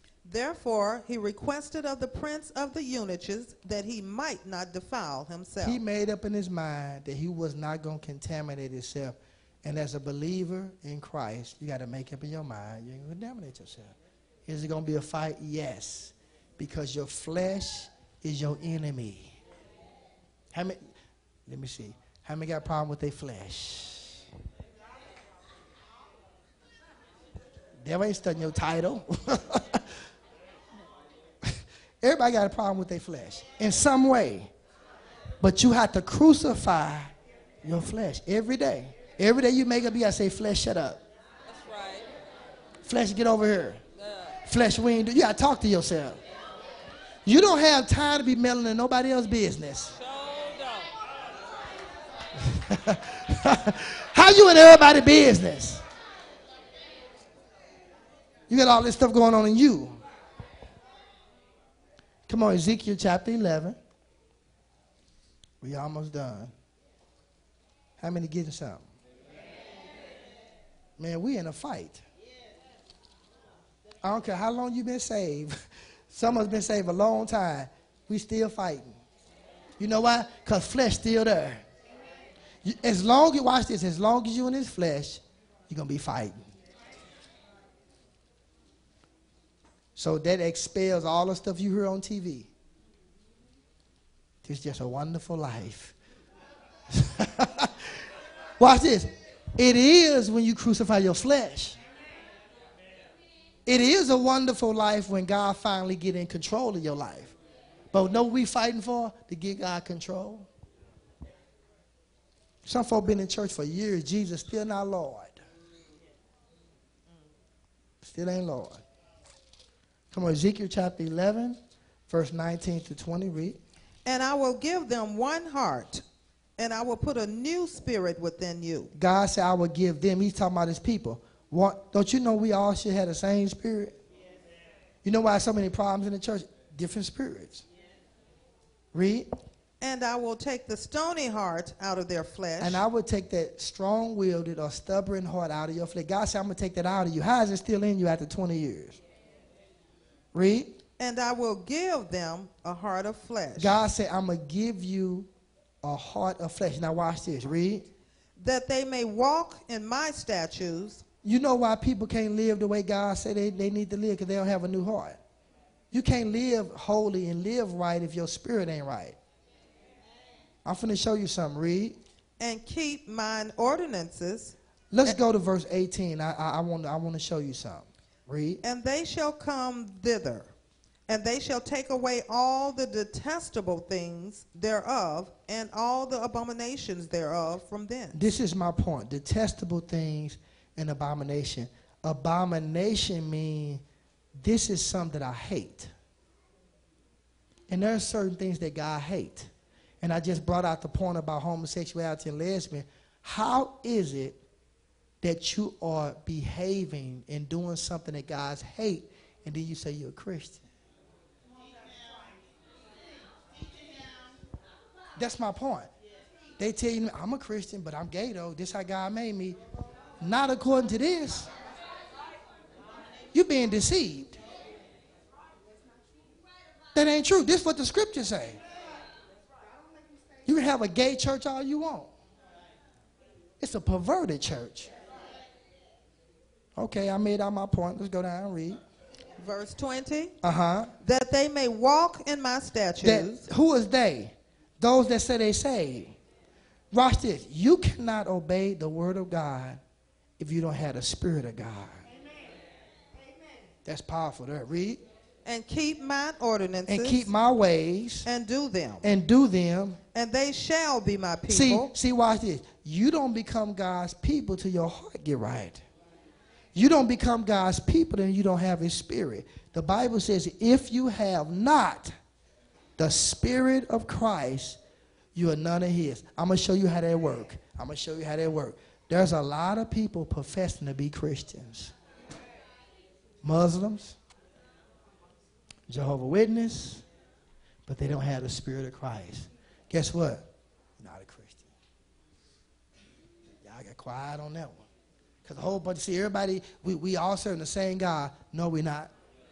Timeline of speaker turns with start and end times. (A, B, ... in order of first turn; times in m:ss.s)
0:00.2-0:05.8 A
0:05.6-0:13.9 B
0:14.5-0:19.4 B
0:20.5-0:20.8 B
0:21.5-0:24.2 B
0:27.8-0:30.0 B
0:31.4-0:34.5 B
0:35.4-0:37.1 B
0:37.6-0:41.0 B
0:41.5-0:42.1 C
0:42.8-0:43.8 B
0:44.0-0:44.4 C
0:44.5-0:46.2 B
0:47.3-0:49.9 B
0:49.9-0:50.9 C
0:52.4-0:55.8 B
0:58.5-1:00.0 B
1:02.3-1:03.8 B
1:05.6-1:06.5 B
1:08.0-1:08.9 B
1:11.0-1:12.0 B
1:14.0-1:15.6 B
1:16.1-1:19.0 B
1:19.8-1:21.6 B
1:22.6-1:26.5 B
1:30.0-1:32.5 B
1:34.4-1:35.9 B
1:36.9-1:37.9 B
1:38.6-1:41.8 B
1:43.6-1:47.3 B
1:47.9-1:50.5 B
1:52.6-1:55.4 B
1:58.0-1:58.8 B
2:00.1-2:03.6 B
2:04.0-2:06.0 A
2:06.6-2:08.9 A
2:08.9-2:14.0 B
2:15.0-2:17.6 B
2:18.9-2:19.3 B
2:19.8-2:22.8 A
2:22.6-2:29.0 B
2:30.3-2:30.8 B
2:31.0-2:33.8 A
2:33.6-2:35.3 B
2:35.8-2:37.9 B
2:38.4-2:41.0 A
2:41.2-2:45.2 B
2:45.9-2:49.2 B
2:50.6-2:52.0 B
2:52.4-2:55.2 A
2:54.9-2:58.6 B
2:58.6-3:00.5 A
3:01.1-3:08.2 A
3:08.1-3:13.8 B
3:14.4-3:15.9 B
3:17.7-3:19.5 B
3:20.0-3:24.4 B
3:25.2-3:30.6 B
3:35.2-3:35.9 B
3:36.6-3:39.6 B
3:40.2-3:41.5 B
3:43.3-3:44.4 B
3:46.9-3:48.6 B
3:50.5-3:52.1 B
3:53.6-3:54.9 B
3:56.8-3:58.8 B
3:59.4-4:00.4 A
4:00.4-4:00.9 B
4:01.0-4:03.5 A
4:03.0-4:06.2 B
4:06.9-4:09.8 B
4:10.4-4:12.0 B
4:13.8-4:15.0 B
4:15.4-4:17.3 A
4:16.9-4:18.3 B
4:18.3-4:19.1 A
4:19.0-4:20.0 B
4:20.1-4:21.9 A
4:21.5-4:25.8 B
4:26.8-4:32.1 B
4:33.0-4:34.8 B
4:35.4-4:41.9 B
4:43.4-4:44.2 B
4:45.9-4:47.0 B
4:47.9-4:50.5 B
4:51.0-4:51.7 B
4:53.6-4:54.8 B
4:55.4-4:59.1 B